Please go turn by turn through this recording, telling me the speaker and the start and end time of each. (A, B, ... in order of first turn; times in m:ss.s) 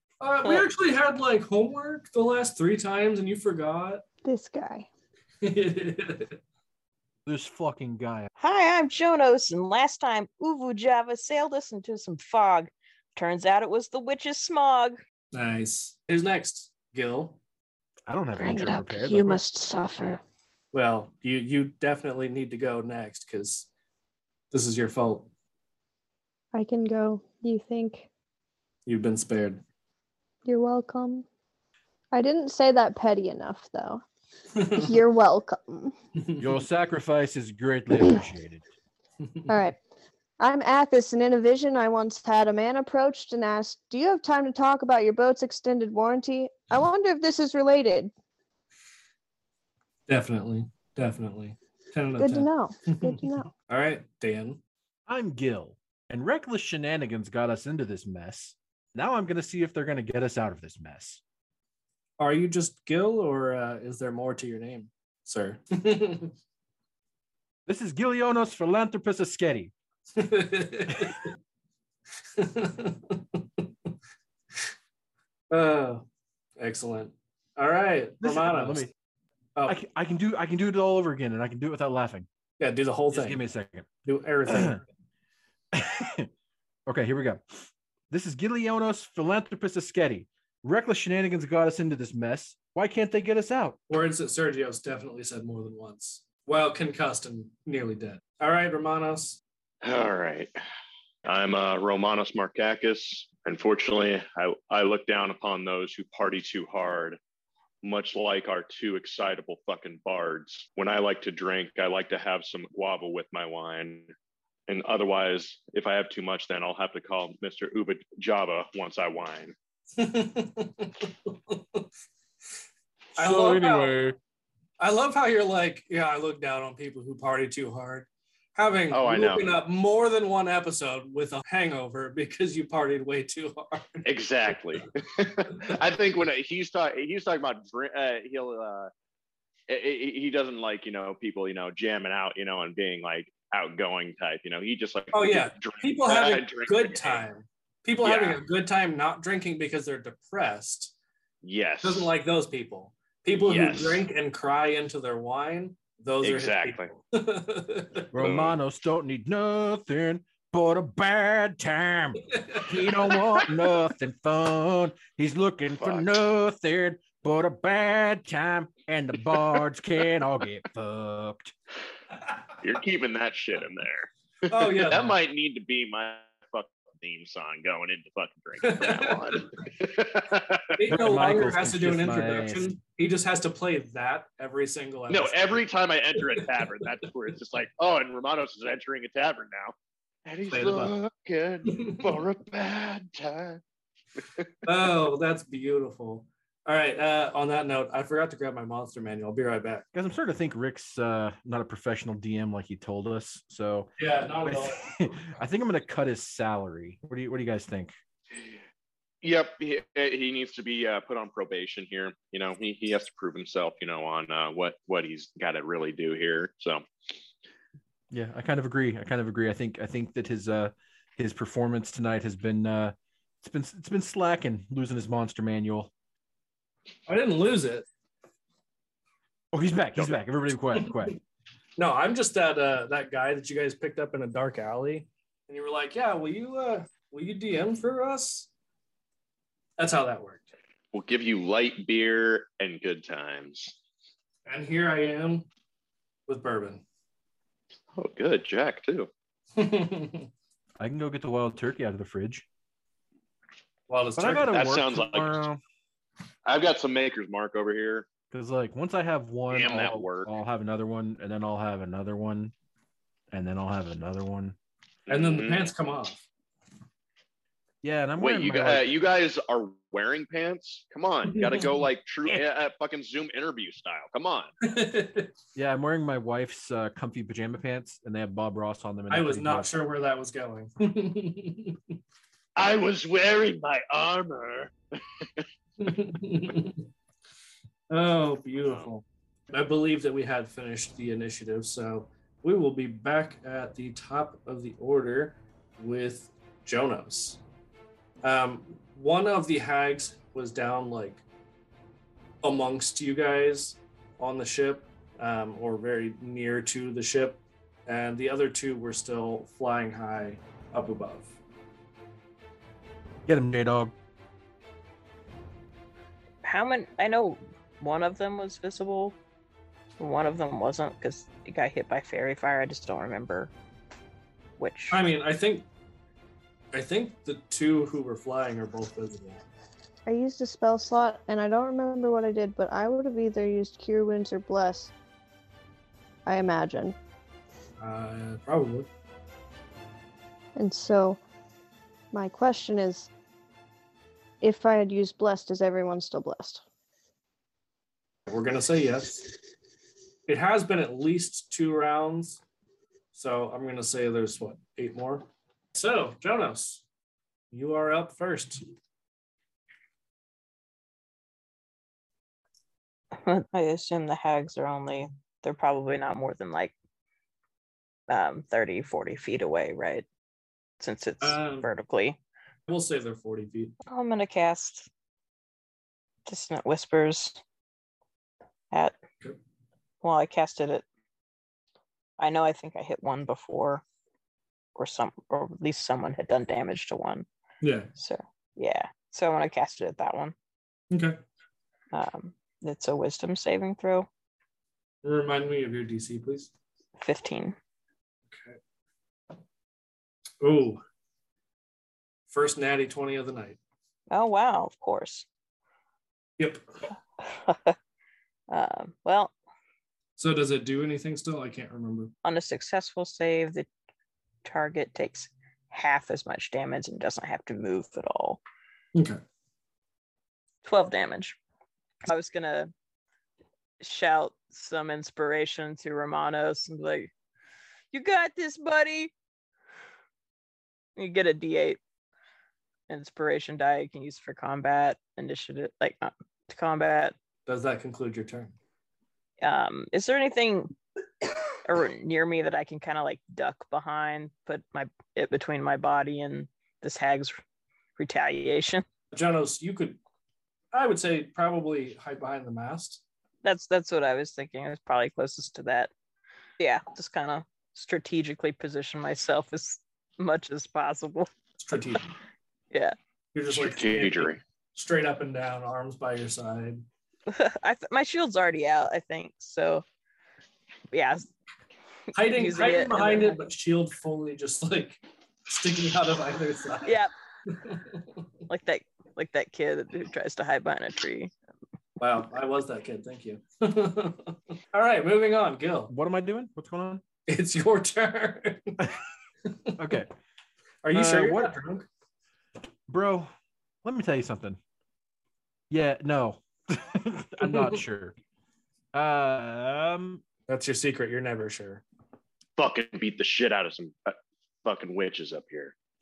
0:00.2-0:04.0 A
0:04.2-0:04.9 B
0:05.4-0:06.4 A
0:07.2-0:08.3 C
0:08.4-0:15.0 D
0:15.3-0:17.4 A
0:18.1-0:19.4 C
0:18.4-0:20.2 B
0:20.7-0:23.7 A
0:24.5-0:25.3 A
0:26.5-0:28.1 B
0:28.8-0:29.6 A
0:30.4-0:31.2 B
0:32.1-0:34.0 B
0:34.6-0:34.9 A
0:34.7-0:35.9 B
0:36.2-0:36.5 A
0:36.4-0:38.6 C
0:39.5-0:39.8 B
0:40.4-0:48.1 B
0:50.1-0:54.6 A
0:52.2-0:53.5 B
0:55.1-1:01.2 C
1:02.2-1:06.3 A
1:07.6-1:09.7 C
1:10.1-1:11.3 A
1:12.4-1:13.6 A
1:15.5-1:16.0 A
1:16.6-1:18.8 A
1:18.2-1:18.9 C
1:19.7-1:22.3 C
1:22.6-1:23.4 A
1:23.1-1:23.9 C
1:24.0-1:24.8 A
1:24.5-1:24.8 C
1:25.7-1:26.3 C
1:26.9-1:33.8 C
1:33.9-1:39.4 A
1:39.8-1:40.5 E
1:41.2-1:47.2 E
1:47.8-1:54.1 E
1:54.7-1:59.5 E
2:00.0-2:01.8 A
2:03.2-2:04.1 A
2:03.2-2:04.2 C
2:04.8-2:14.1 A
2:08.9-2:09.5 E
2:14.0-2:18.9 E
2:19.7-2:27.2 E
2:25.1-2:30.9 A
2:28.0-2:28.4 E
2:31.4-2:32.1 E
2:31.8-2:38.1 A
2:33.4-2:34.0 E
2:36.2-2:36.9 E
2:38.1-2:51.5 C
2:38.2-2:38.6 E
2:45.8-2:46.1 E
2:52.6-3:00.8 E
2:54.5-2:55.2 A
2:58.6-2:59.4 A
3:00.8-3:05.6 A
3:00.9-3:02.8 C
3:05.1-3:09.7 E
3:10.2-3:13.6 E
3:10.5-3:10.9 A
3:11.7-3:12.0 A
3:14.6-3:19.8 A
3:19.9-3:27.9 C
3:24.0-3:24.9 A
3:29.2-3:36.8 E
3:38.1-3:45.9 C
3:47.1-3:47.9 A
3:49.5-3:51.2 C
3:51.8-3:58.5 A
3:59.8-4:00.5 A
4:00.9-4:03.7 E
4:04.4-4:05.5 A
4:06.3-4:06.8 A
4:07.9-4:09.1 E
4:09.6-4:10.3 A
4:10.8-4:12.4 C
4:13.9-4:14.5 A
4:14.2-4:15.6 C
4:14.5-4:15.4 E
4:16.4-4:18.1 E
4:18.3-4:22.5 C
4:19.5-4:20.3 E
4:23.3-4:24.6 C
4:25.1-4:25.7 E
4:25.1-4:26.2 A
4:27.8-4:28.9 C
4:28.2-4:34.5 E
4:31.3-4:31.6 A
4:34.6-4:35.3 A
4:35.5-4:39.8 C
4:39.1-4:41.8 A
4:42.6-4:45.4 E
4:45.8-4:46.8 A
4:47.9-4:57.4 A
4:58.2-5:01.2 A
5:02.4-5:11.4 A
5:13.3-5:13.9 C
5:16.4-5:19.2 D
5:20.0-5:23.5 D
5:24.6-5:25.0 D
5:24.9-5:25.7 A
5:26.7-5:29.4 A
5:30.1-5:34.9 B
5:36.2-5:37.0 B
5:37.8-5:38.9 A
5:40.6-5:41.2 B
5:42.1-5:43.1 B
5:44.4-5:46.6 B
5:48.3-5:49.3 A
5:50.3-5:52.4 A
5:53.1-5:56.8 A
5:57.5-5:58.6 A
6:03.2-6:06.7 D
6:08.1-6:10.0 D
6:10.8-6:12.2 D
6:11.2-6:11.7 A
6:12.7-6:13.7 A
6:13.9-6:14.9 D
6:16.2-6:17.4 D
6:18.7-6:19.0 D
6:20.0-6:20.8 D
6:22.2-6:23.8 D
6:24.8-6:27.2 D
6:27.6-6:27.9 A
6:28.0-6:30.3 D
6:30.9-6:31.2 A
6:31.9-6:34.1 D
6:35.0-6:36.5 A
6:37.0-6:37.6 D
6:38.3-6:38.6 A
6:40.4-6:40.8 A
6:42.3-6:43.6 A
6:44.1-6:45.2 D
6:47.3-6:47.8 D
6:48.5-6:49.3 D
6:50.2-6:52.1 A
6:52.2-6:53.7 D
6:54.4-6:58.4 D
6:58.9-6:59.2 A
7:00.6-7:01.4 D
7:02.0-7:02.7 D
7:03.8-7:07.1 D
7:07.9-7:09.1 D
7:11.0-7:11.8 D
7:12.9-7:17.2 D
7:17.5-7:18.5 A
7:19.4-7:20.7 D
7:21.6-7:27.4 D
7:28.0-7:28.8 D
7:29.1-7:30.0 A
7:30.7-7:33.0 A
7:33.4-7:35.9 D
7:36.6-7:41.3 D
7:41.6-7:42.1 A
7:43.3-7:46.8 A
7:43.5-7:44.4 E
7:47.3-7:49.8 D
7:50.9-7:51.3 D
7:52.1-7:56.9 A
7:52.3-7:53.4 D
7:56.8-7:57.1 D
7:57.5-7:58.0 A
7:58.5-8:01.3 D
8:02.0-8:05.9 A
8:05.9-8:07.0 C
8:07.3-8:08.8 A
8:09.5-8:09.7 A
8:09.8-8:10.1 C
8:10.8-8:11.8 A
8:10.9-8:11.6 C
8:12.9-8:13.3 C
8:13.8-8:14.6 C
8:15.7-8:18.2 C
8:17.4-8:17.8 A
8:18.9-8:20.2 C
8:20.5-8:21.8 A
8:22.6-8:25.7 E